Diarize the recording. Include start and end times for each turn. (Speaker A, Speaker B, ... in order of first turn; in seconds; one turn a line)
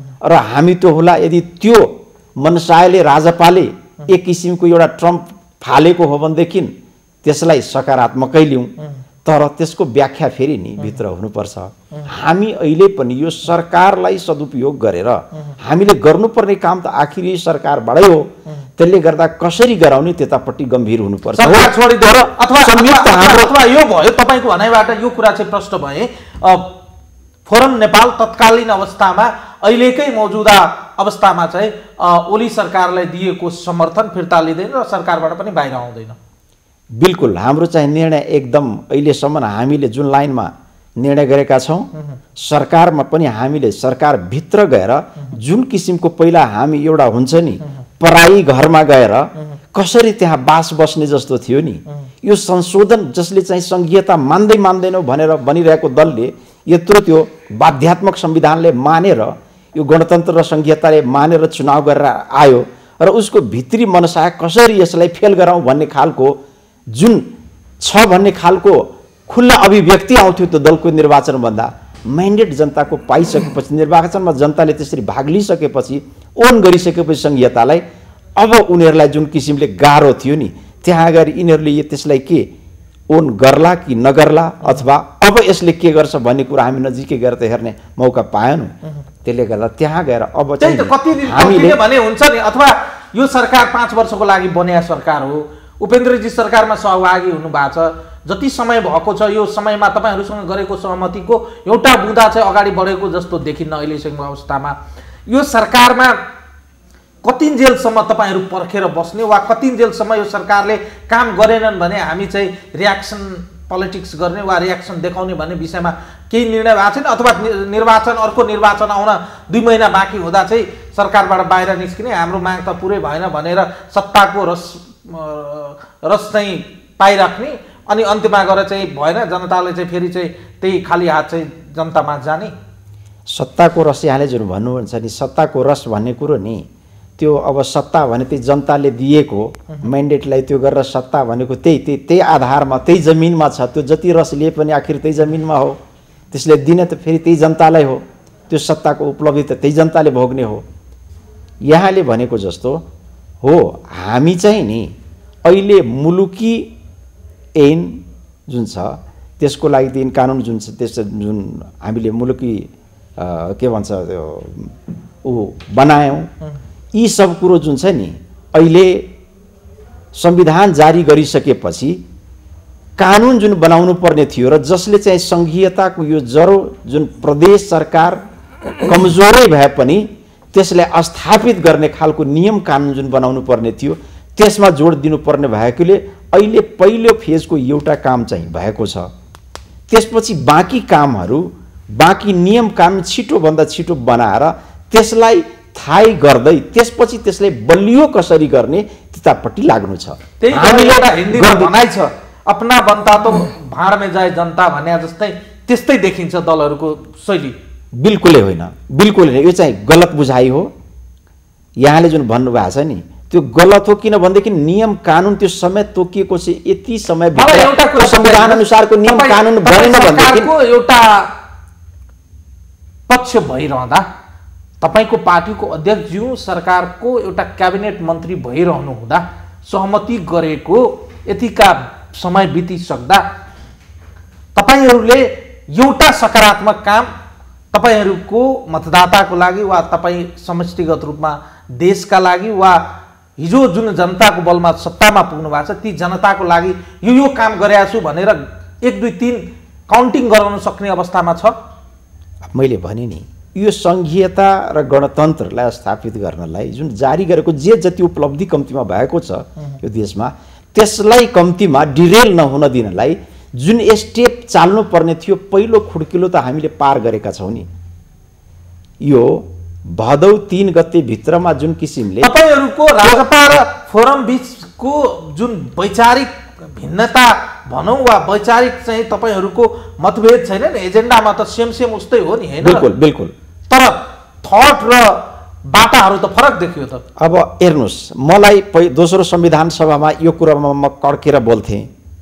Speaker A: 0.2-6.7
Speaker A: 7.2-8.7
Speaker A: 9.2-23.5
Speaker B: 21.4-26.7
Speaker B: 27.5-36.2
Speaker A: 37.0-66.4
Speaker A: 66.9-77.8
Speaker A: 78.4-82.5
Speaker A: 83.1-91.8
Speaker B: 90.6-106.2
Speaker B: 107.2-132.5
Speaker A: 133.3-136.7
Speaker A: 137.2-145.8
Speaker A: 146.3-150.6
Speaker A: 151.7-152.8
Speaker A: 153.4-154.9
Speaker A: 155.4-156.7
Speaker A: 157.6-166.3
Speaker A: 166.9-169.1
Speaker A: 170.1-172.0
Speaker A: 173.0-178.2
Speaker A: 178.8-189.1
Speaker A: 189.9-201.7
Speaker B: 200.4-207.6
Speaker A: 208.0-210.7
Speaker A: 211.8-220.5
Speaker B: 217.4-221.3
Speaker B: 223.1-224.1
Speaker B: 224.8-233.2
Speaker B: 234.6-237.1
Speaker B: 237.7-242.8
Speaker B: 243.4-251.5
Speaker A: 252.4-267.7
Speaker A: 269.0-272.3
Speaker B: 272.2-282.9
Speaker A: 282.6-283.3
Speaker B: 283.7-287.0
Speaker A: 287.2-291.9